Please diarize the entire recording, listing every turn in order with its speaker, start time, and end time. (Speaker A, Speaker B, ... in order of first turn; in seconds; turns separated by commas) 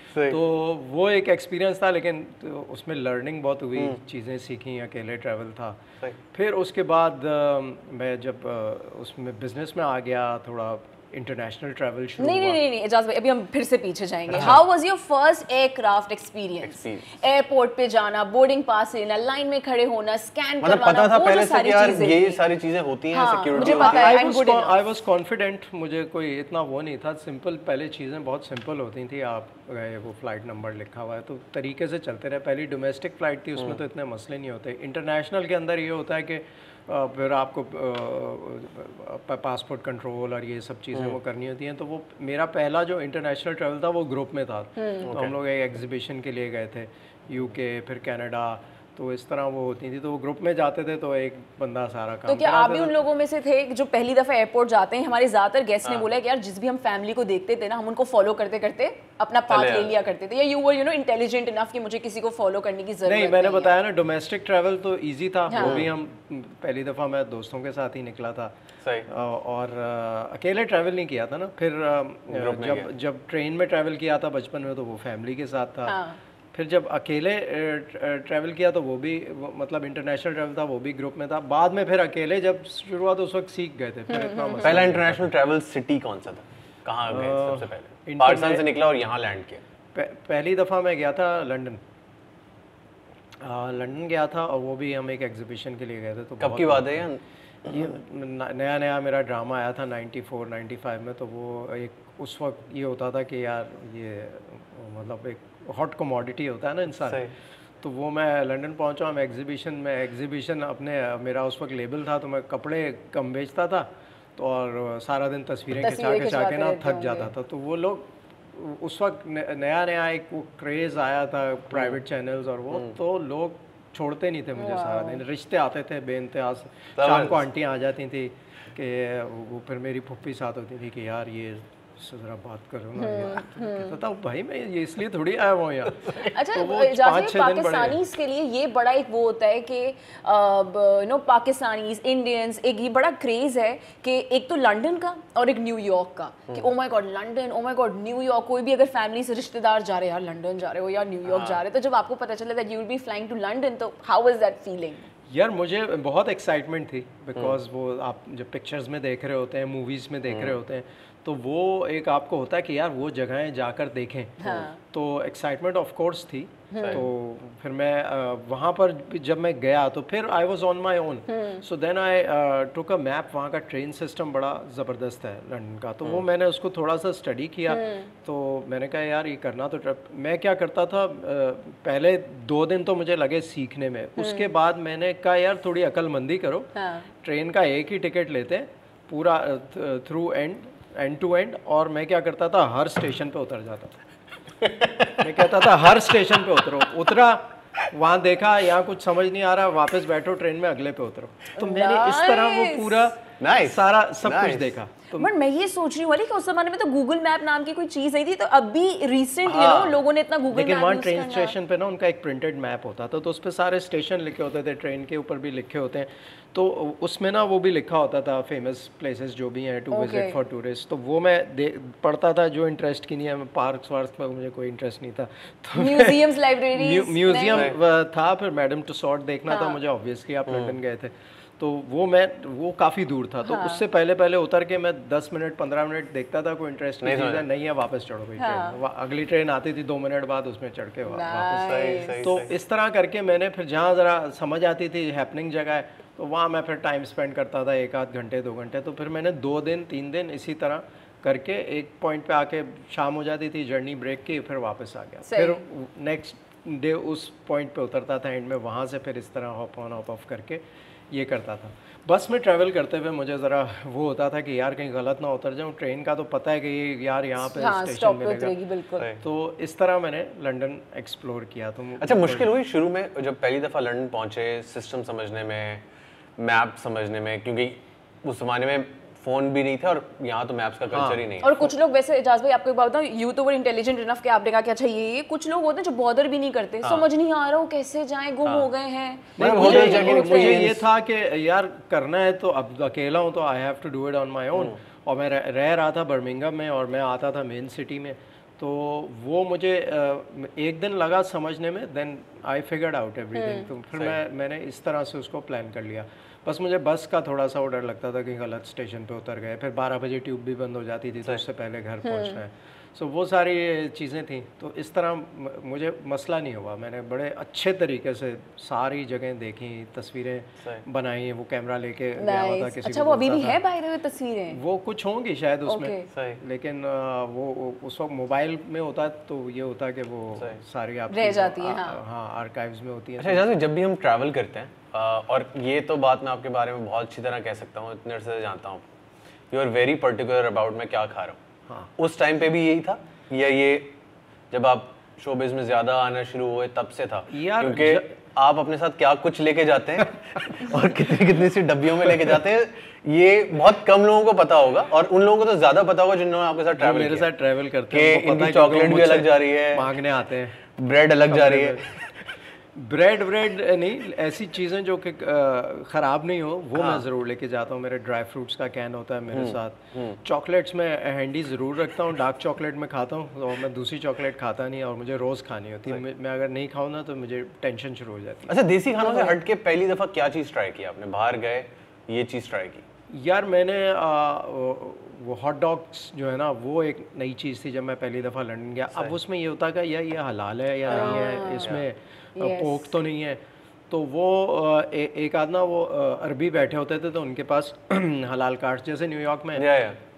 Speaker A: 0.1-0.4, Speaker B: 0.3-5.8, Speaker B: 6.3-12.6, Speaker C: 12.2-22.4, Speaker A: 16.6-17.1, Speaker A: 20.6-24.2, Speaker C: 23.1-24.7, Speaker B: 23.6-53.0, Speaker C: 44.8-45.1, Speaker A: 45.0-45.3, Speaker C: 52.3-63.8, Speaker A: 59.5-59.9, Speaker B: 63.0-68.5, Speaker C: 65.5-65.8, Speaker A: 65.5-65.9, Speaker B: 69.1-76.0, Speaker A: 72.3-72.9, Speaker C: 75.9-76.2, Speaker B: 76.5-85.3, Speaker C: 84.1-84.8, Speaker A: 84.6-89.6, Speaker B: 87.1-88.7, Speaker B: 89.9-91.8, Speaker B: 93.4-97.1, Speaker A: 96.4-97.2, Speaker B: 97.6-107.2, Speaker A: 107.0-107.3, Speaker B: 107.8-138.0, Speaker C: 115.8-117.3, Speaker C: 124.6-125.2, Speaker A: 127.0-127.4, Speaker C: 133.0-133.9, Speaker C: 136.2-155.1, Speaker A: 151.3-151.6, Speaker B: 155.3-186.7, Speaker C: 164.4-164.8, Speaker C: 166.7-167.0, Speaker C: 171.3-171.6, Speaker C: 177.7-178.1, Speaker C: 184.2-184.5, Speaker C: 186.7-187.1, Speaker B: 187.2-193.9, Speaker A: 194.6-195.3, Speaker B: 195.2-205.3, Speaker C: 201.6-202.9, Speaker A: 203.4-204.7, Speaker C: 205.2-211.5, Speaker A: 209.4-210.0, Speaker B: 210.5-268.6, Speaker C: 219.9-220.4, Speaker C: 225.8-227.7, Speaker C: 229.5-229.8, Speaker A: 230.5-230.7, Speaker C: 233.4-233.8, Speaker A: 237.0-237.4, Speaker C: 238.4-238.8, Speaker C: 241.1-242.2, Speaker A: 241.5-242.5, Speaker C: 255.3-255.6, Speaker C: 267.5-269.1, Speaker B: 269.2-272.5, Speaker A: 272.0-275.8, Speaker A: 276.4-281.6, Speaker B: 280.9-281.2, Speaker C: 281.4-290.7, Speaker A: 289.4-290.8, Speaker B: 289.4-323.6, Speaker C: 303.3-303.7, Speaker C: 312.0-312.4, Speaker C: 322.2-324.6, Speaker B: 324.5-333.5, Speaker C: 325.7-326.1, Speaker A: 326.1-326.4, Speaker C: 331.1-332.0, Speaker A: 333.2-338.9, Speaker A: 339.5-341.4, Speaker A: 342.0-343.9, Speaker A: 344.5-357.3, Speaker B: 347.3-348.1, Speaker B: 356.8-360.6, Speaker A: 357.9-359.9, Speaker A: 360.8-361.8, Speaker B: 361.2-362.2, Speaker B: 362.7-379.4, Speaker A: 366.8-367.0, Speaker A: 369.3-370.2, Speaker A: 378.5-382.8, Speaker B: 383.1-399.7, Speaker A: 390.9-391.8, Speaker C: 390.9-391.7, Speaker C: 392.4-392.9, Speaker A: 399.6-400.0